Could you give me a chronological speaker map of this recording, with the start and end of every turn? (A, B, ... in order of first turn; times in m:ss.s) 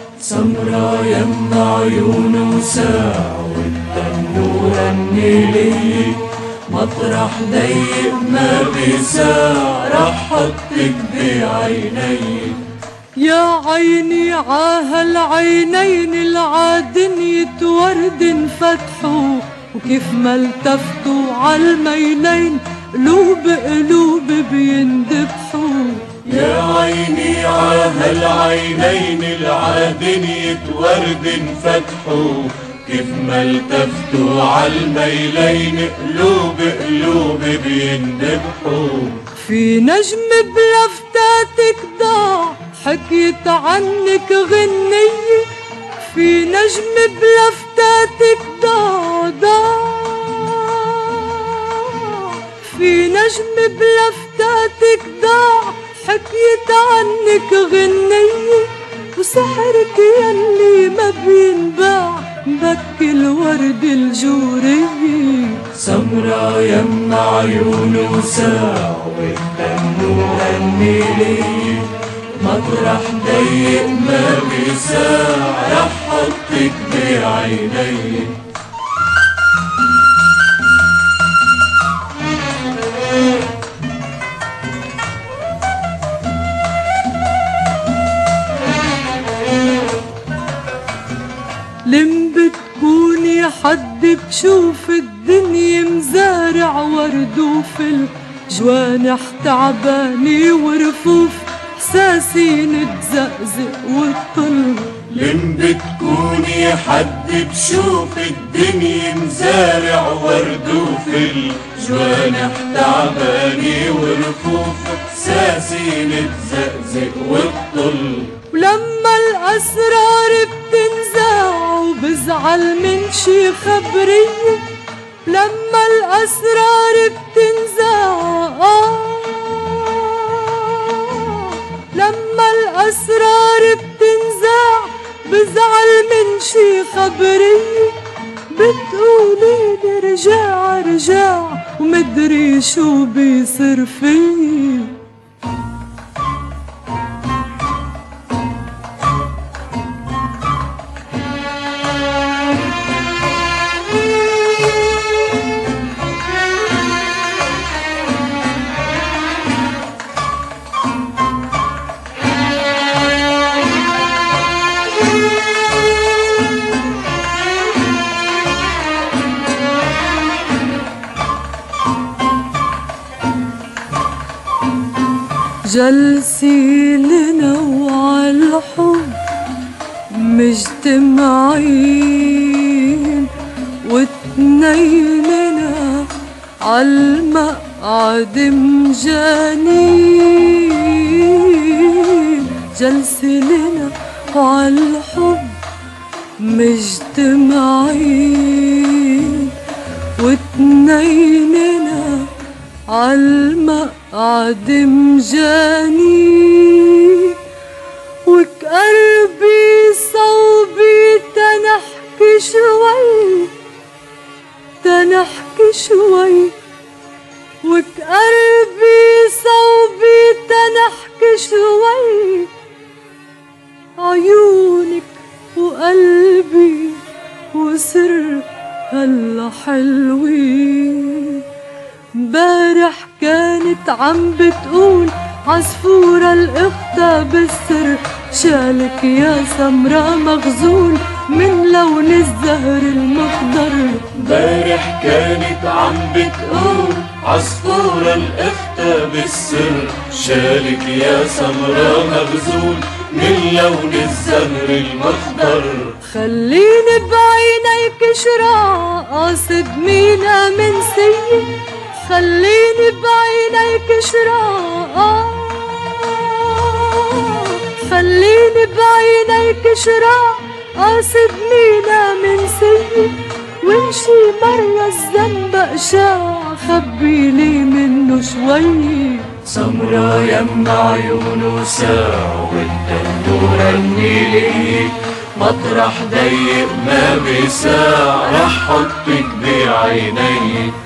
0:00.2-0:12.7 A
0:13.2-0:26.2 B
0:26.2-0:39.2 A
0:39.3-1:05.7 B
1:05.7-1:18.4 A
1:31.8-1:45.1 B
1:45.1-1:58.4 A
1:58.5-2:04.7 B
2:05.2-2:18.0 B
2:18.5-2:25.0 B
2:55.6-2:59.2 B
3:00.1-3:15.6 B
3:16.4-3:19.6 B
3:20.2-3:22.3 B
3:22.9-3:27.4 B
3:28.2-3:33.5 B
3:34.8-3:36.6 B
3:37.6-3:42.5 B
3:44.0-3:51.4 B
3:52.1-4:04.2 B
4:04.2-4:16.0 A
4:16.0-4:39.4 B
4:39.4-4:50.8 A